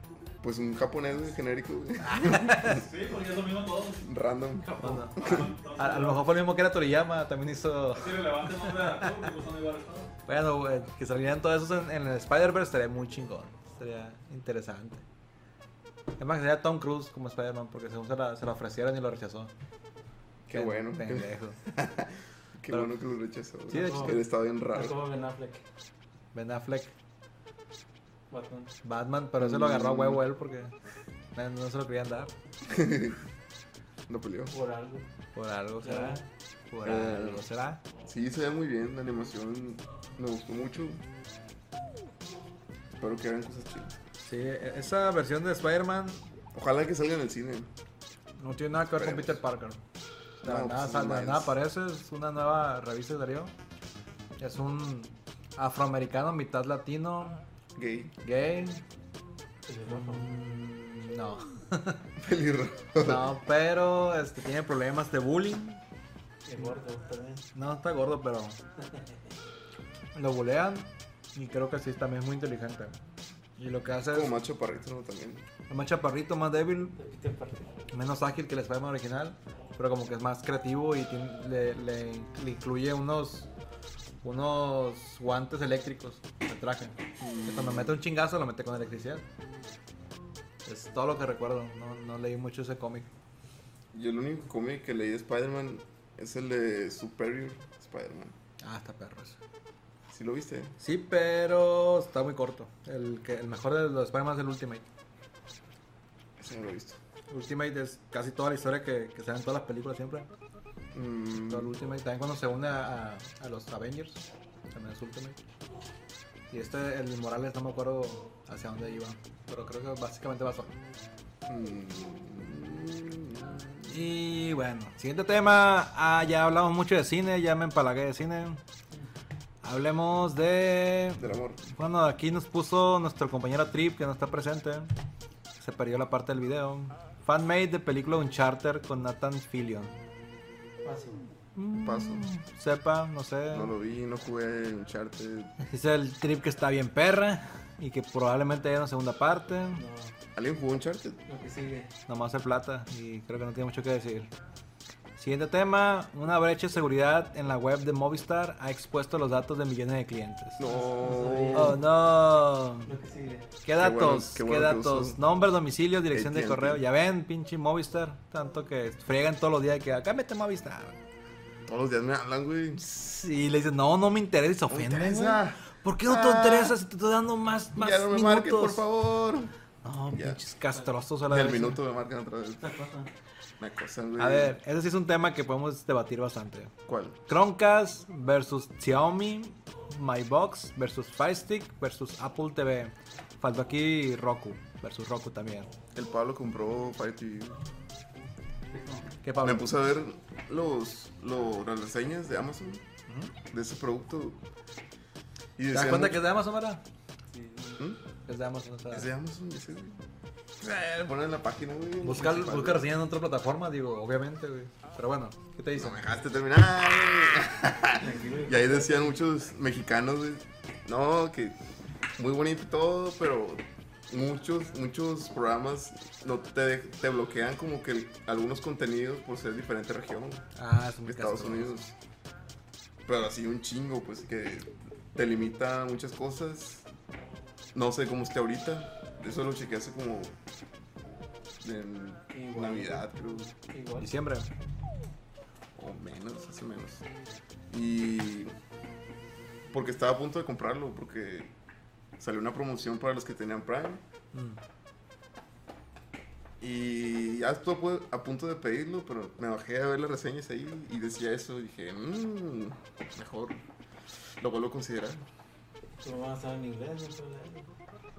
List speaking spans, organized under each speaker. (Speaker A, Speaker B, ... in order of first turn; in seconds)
Speaker A: 0.4-2.8, 4.0-5.5, 20.5-25.0, 29.4-30.2, 32.7-33.2, 34.1-34.5, 36.9-37.4, 38.0-41.0, 43.0-44.0, 46.5-47.7, 48.9-49.4, 50.4-51.5, 57.8-58.1, 62.2-63.3, 74.1-75.5, 87.2-88.0, 93.9-98.3, 100.1-100.7, 106.4-107.0, 110.9-111.7, 121.5-124.0, 131.2-131.6, 141.8-142.3, 143.5-145.5, 150.3-151.2, 160.6-161.8, 163.8-165.2, 166.1-166.8, 171.7-172.8, 174.7-176.8, 177.8-179.5, 180.1-180.4, 181.3-182.8, 183.6-184.6, 186.9-187.2, 195.9-197.6, 199.4-202.8, 203.5-204.4, 205.6-206.2, 208.9-210.0, 210.6-212.9, 215.8-221.6, 222.2-230.4, 231.1-231.9, 233.1-236.9, 237.7-240.4, 241.6-243.5, 245.8-247.0, 247.7-248.5, 249.7-251.5, 252.2-254.0, 256.6-263.6, 264.4-265.2
Speaker B: 2.0-2.8, 4.8-9.1, 10.3-15.0, 16.2-19.5, 20.5-21.6, 22.7-23.0, 23.7-24.2, 26.3-26.9, 28.8-30.7, 31.4-32.3, 35.4-37.8, 44.2-46.2, 48.4-49.8, 50.4-53.5, 54.4-57.4, 58.2-58.8, 59.9-62.0, 63.0-65.8, 67.5-68.6, 70.1-73.0, 73.6-74.3, 75.7-77.0, 77.9-83.5, 84.2-89.2, 90.7-93.1, 98.6-99.4, 100.8-104.8, 107.3-110.3, 111.5-115.4, 116.5-120.8, 123.9-128.6, 129.6-134.9, 135.6-139.9, 141.6-143.7, 145.6-149.8, 152.1-154.3, 155.2-160.7, 161.5-162.9, 163.6-171.0, 172.8-178.8, 179.8-181.8, 184.2-186.7, 187.3-195.7, 199.2-199.7, 203.1-203.3, 205.7-206.8, 208.3-209.1, 212.0-216.0, 230.6-231.9, 244.0-244.5, 254.3-254.6
Speaker C: 2.6-4.1, 4.7-6.3, 7.9-10.1
Speaker D: 23.7-25.6, 28.3-28.7, 34.5-35.1, 35.8-36.2, 59.7-60.3, 66.5-67.4, 77.0-77.7, 140.8-141.2, 149.8-150.2, 151.3-151.9, 160.7-161.8, 162.8-163.5, 182.6-183.1, 198.8-199.0, 207.3-207.8, 218.0-219.1, 242.3-243.1, 243.7-244.1, 266.0-267.7